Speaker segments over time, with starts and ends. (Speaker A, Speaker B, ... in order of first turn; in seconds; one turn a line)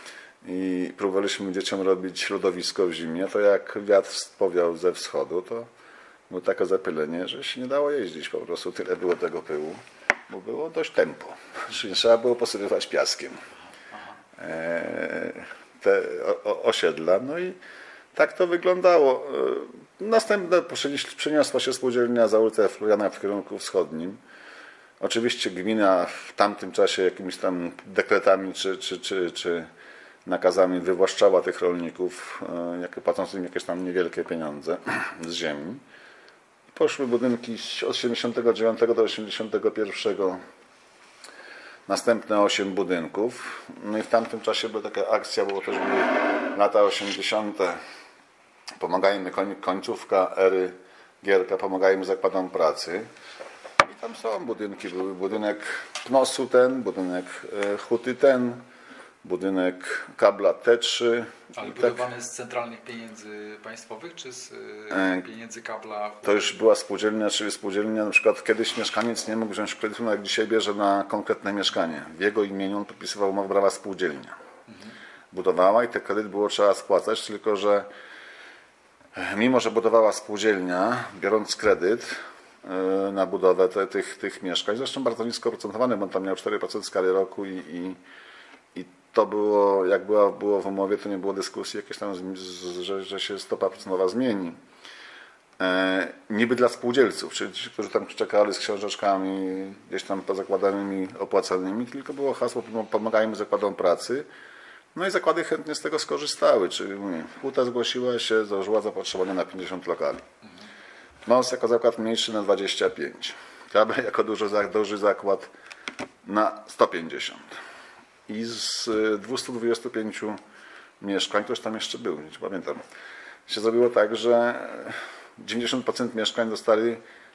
Speaker A: 0.4-5.7
Speaker A: 6.3-13.4
Speaker B: 13.9-14.2
Speaker A: 14.4-17.6
Speaker A: 18.1-24.2
Speaker A: 25.0-29.7
Speaker A: 30.2-35.8
Speaker A: 36.7-40.4
Speaker A: 41.9-47.8
Speaker A: 48.8-53.1
Speaker A: 53.8-58.6
Speaker A: 59.2-62.1
Speaker B: 61.5-66.5
Speaker A: 64.9-65.2
Speaker A: 66.2-74.3
Speaker B: 74.7-75.0
Speaker A: 75.3-77.9
Speaker A: 79.1-88.0
Speaker A: 88.7-94.6
Speaker A: 95.6-104.3
Speaker A: 104.9-110.2
Speaker A: 111.2-115.5
Speaker A: 116.2-117.6
Speaker A: 118.3-120.4
Speaker A: 121.0-122.8
Speaker A: 123.5-127.0